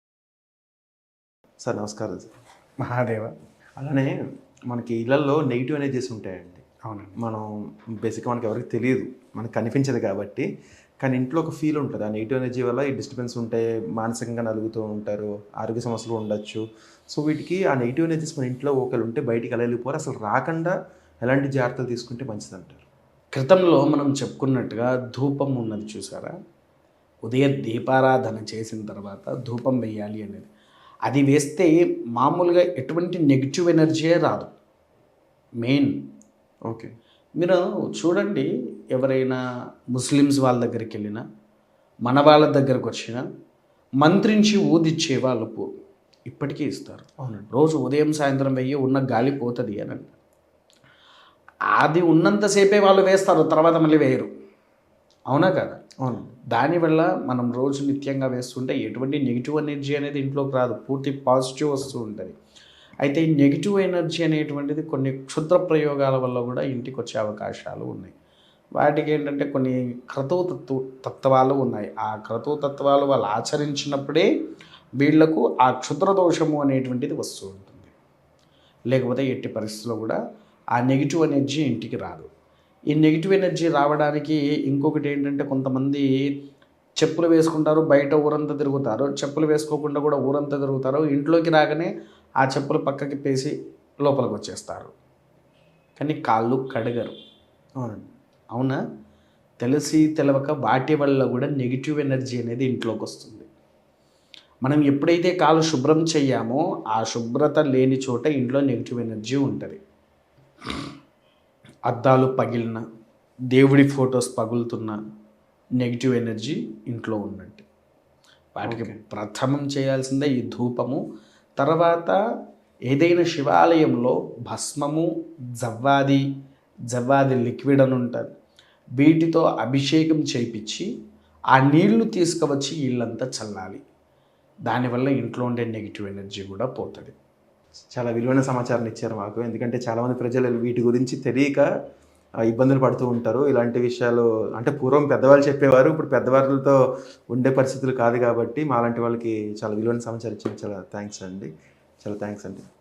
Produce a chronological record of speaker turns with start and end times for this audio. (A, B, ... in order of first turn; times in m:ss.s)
0:01.6-0:02.3 A
0:02.8-0:03.3 B
0:03.8-0:04.1 A
0:04.7-0:06.6 A
0:06.9-0:07.2 B
0:07.2-0:07.5 A
0:08.0-0:10.5 A
0:11.0-0:22.8 A
0:23.4-0:26.3 B
0:27.2-0:30.5 B
0:31.1-0:34.5 B
0:35.6-0:36.0 B
0:36.7-0:36.9 A
0:37.4-0:39.4 B
0:39.9-0:41.2 B
0:42.1-0:43.2 B
0:44.0-0:45.7 B
0:46.3-0:50.2 B
0:47.2-0:47.5 A
0:51.8-0:54.3 B
0:55.3-0:55.8 B
0:56.0-0:56.3 A
0:56.5-1:02.4 B
1:03.0-1:08.1 B
1:08.8-1:14.3 B
1:15.0-1:17.9 B
1:18.9-1:20.2 B
1:20.8-1:22.3 B
1:22.9-1:26.3 B
1:27.0-1:31.9 B
1:32.4-1:34.9 B
1:36.0-1:37.2 B
1:37.8-1:38.1 A
1:38.5-1:38.8 B
1:39.6-1:43.5 B
1:44.6-1:49.8 B
1:51.9-1:52.8 B
1:53.5-1:55.0 B
1:55.8-1:57.6 B
1:58.6-2:01.0 B
1:58.6-1:59.0 A
2:01.6-2:02.2 B
2:02.9-2:05.1 B
2:05.6-2:06.2 B
2:06.9-2:08.3 B
2:09.0-2:10.9 B
2:11.5-2:13.8 B
2:14.7-2:17.1 B
2:17.9-2:21.6 A
2:22.5-2:26.8 A
2:27.3-2:31.5 A
2:32.0-2:32.6 A